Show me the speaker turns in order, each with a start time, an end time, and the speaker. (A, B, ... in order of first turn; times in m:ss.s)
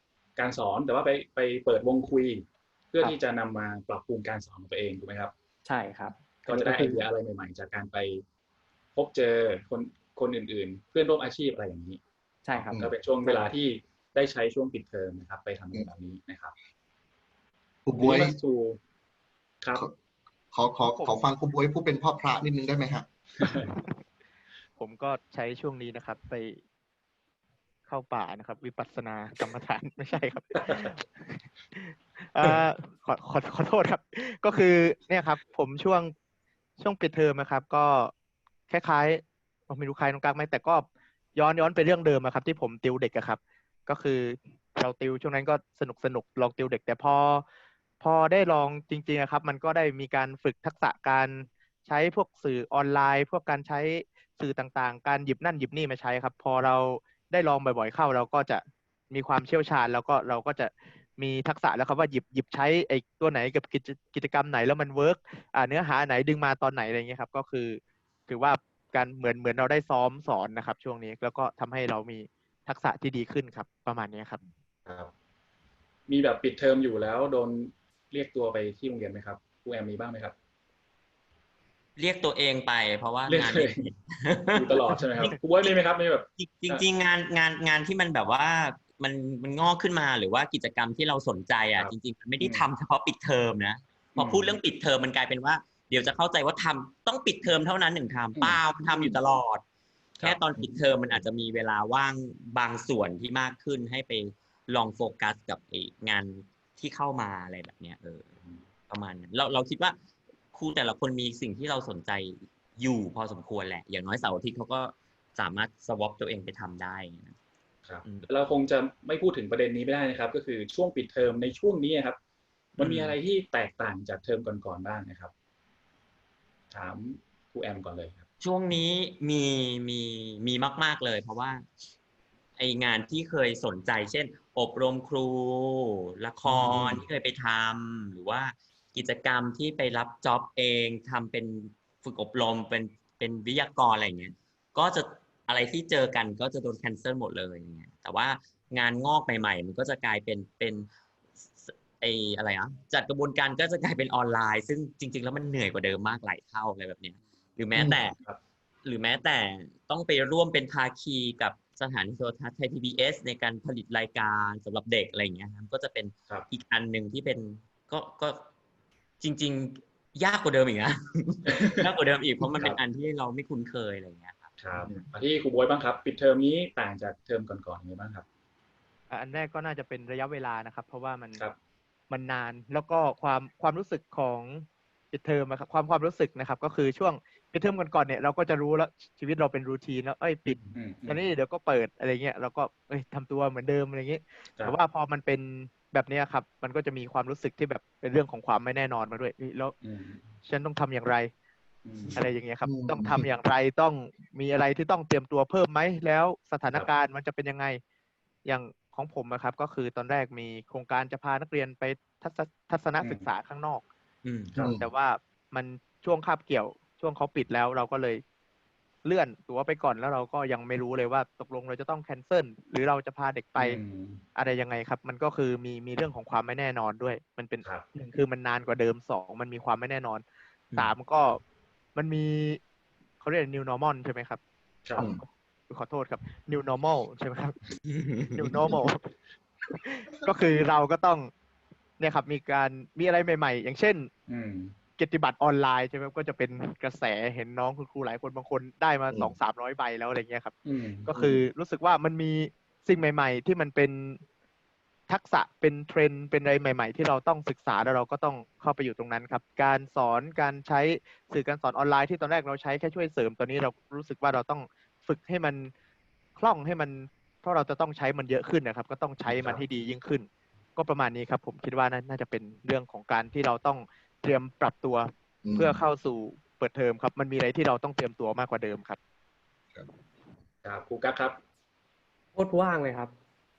0:00.4-0:05.3 A
0:05.6-0:07.0 B
0:06.4-0:08.2 A
0:08.9-0:12.0 A
0:12.4-0:13.4 B
0:12.5-0:16.5 A
0:17.8-0:18.4 C
0:18.0-0:18.8 A
0:20.5-0:23.7 C
0:23.4-0:23.7 A
0:24.8-0:26.6 D
0:27.9-0:36.1 D
0:30.6-0:30.9 A
0:36.8-0:38.1 D
0:38.7-0:47.4 D
0:48.0-1:14.4 D
1:14.8-1:15.1 A
1:16.1-1:20.3 A
1:22.0-1:25.7 E
1:23.3-1:23.9 A
1:24.5-1:26.8 A
1:26.4-1:39.6 E
1:31.8-1:32.7 A
1:34.2-1:34.6 A
1:38.4-1:39.2 A
1:40.2-1:41.2 A
1:40.2-1:48.3 E
1:48.9-1:50.0 E
1:50.5-1:57.4 E
1:57.8-2:02.2 A
1:58.0-1:58.3 E
2:02.8-2:03.2 E
2:02.8-2:05.3 A
2:06.7-2:08.2 A
2:08.4-2:11.6 E
2:12.6-2:30.9 E
2:16.4-2:17.0 A
2:31.6-2:38.2 E
2:38.8-2:48.5 E
2:49.2-2:54.5 E
2:51.5-2:51.9 A
2:52.5-2:52.8 A
2:54.6-2:58.2 A
2:59.1-3:01.4 D
3:02.1-3:19.8 D
3:10.5-3:11.2 A
3:19.8-3:20.3 A
3:20.4-3:21.3 D
3:21.8-3:22.2 A
3:22.1-3:27.8 D
3:22.6-3:23.3 C
3:28.4-3:33.8 D
3:33.0-3:33.2 A
3:34.2-3:34.8 A
3:34.6-3:34.9 C
3:34.6-3:38.2 D
3:39.0-3:43.8 D
3:43.6-3:44.2 A
3:44.4-3:50.2 D
3:47.6-3:47.9 A
3:50.7-3:51.4 D
3:51.9-3:52.6 D
3:53.2-3:54.4 D
3:55.0-3:57.6 D
3:57.9-3:58.7 E
3:58.3-3:59.1 D
3:59.7-4:01.3 D
4:02.0-4:04.1 D
4:04.3-4:04.7 A
4:05.0-4:14.2 D
4:10.6-4:11.1 A
4:11.1-4:11.4 C
4:15.1-4:25.7 D
4:26.4-4:39.0 D
4:29.3-4:29.6 A
4:35.4-4:35.8 C
4:40.6-4:41.4 A
4:42.4-4:43.1 B